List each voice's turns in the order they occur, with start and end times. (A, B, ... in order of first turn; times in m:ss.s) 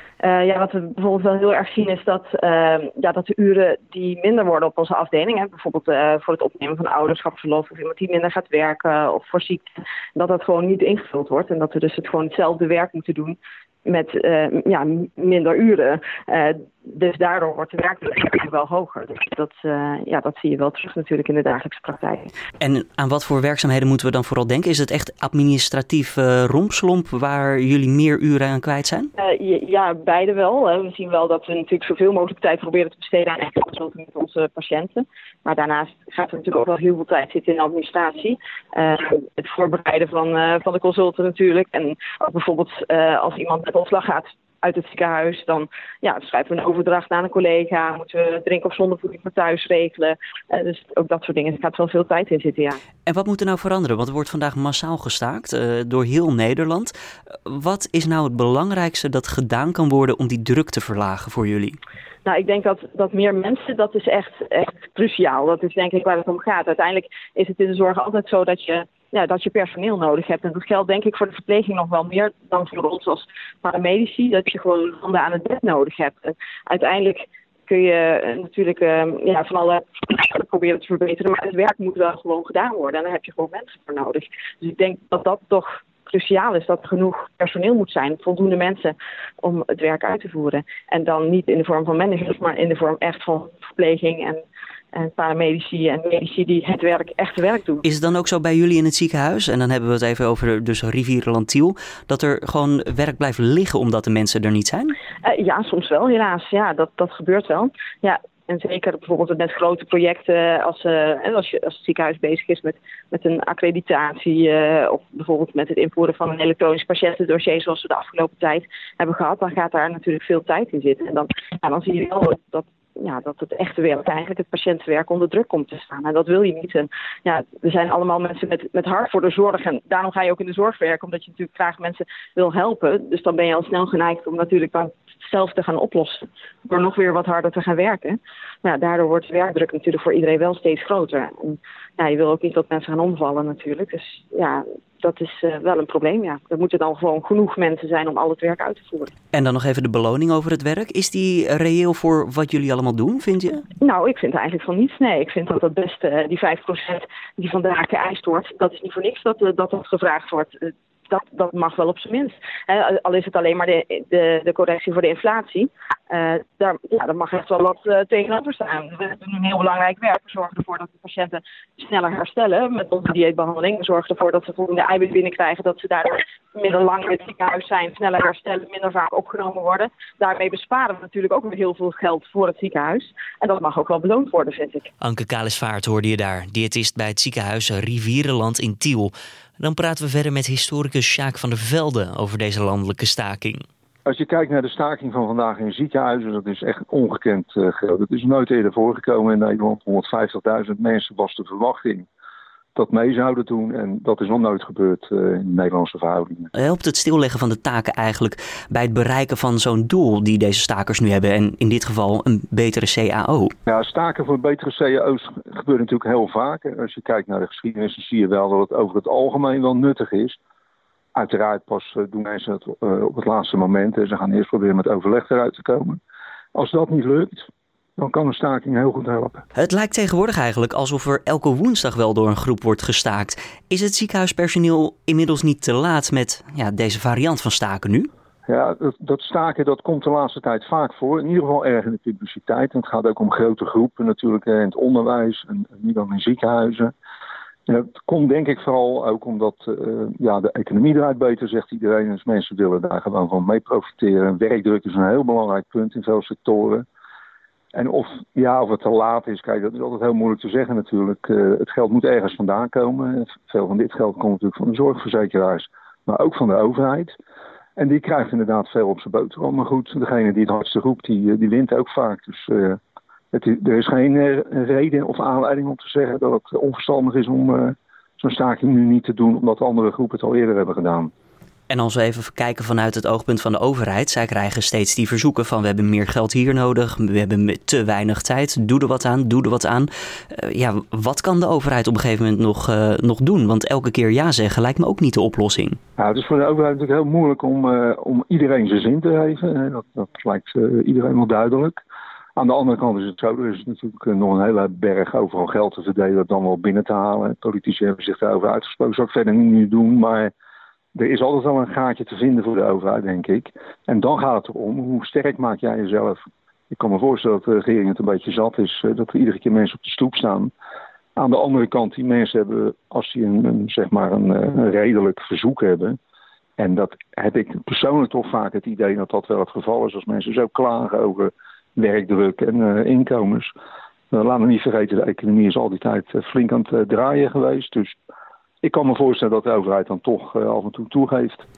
0:00.2-0:22.3 A
0:22.6-0:29.1 B
0:29.2-0:52.8 A
0:53.1-0:56.9 B
0:57.5-1:01.8 B
1:02.2-1:34.4 A
1:34.9-1:37.8 A
1:37.8-1:45.0 B
1:45.2-2:29.1 A
2:29.3-2:33.6 B
2:33.8-3:04.9 A
3:05.0-3:13.6 B
3:14.1-3:22.1 C
3:22.8-3:26.5 C
3:26.5-3:33.5 B
3:33.7-3:40.4 C
3:41.2-3:46.0 C
3:46.5-3:49.4 C
3:49.6-3:58.1 B
3:58.5-4:06.9 C
4:07.7-4:16.9 C
4:17.7-4:27.2 C
4:27.8-4:32.8 C
4:33.3-4:41.1 C
4:41.7-4:55.8 B
4:56.0-5:01.8 C
5:02.4-5:10.3 C
5:10.9-5:20.5 C
5:21.2-5:26.0 C
5:26.6-5:33.5 C
5:34.1-5:38.0 C
5:38.6-5:41.4 C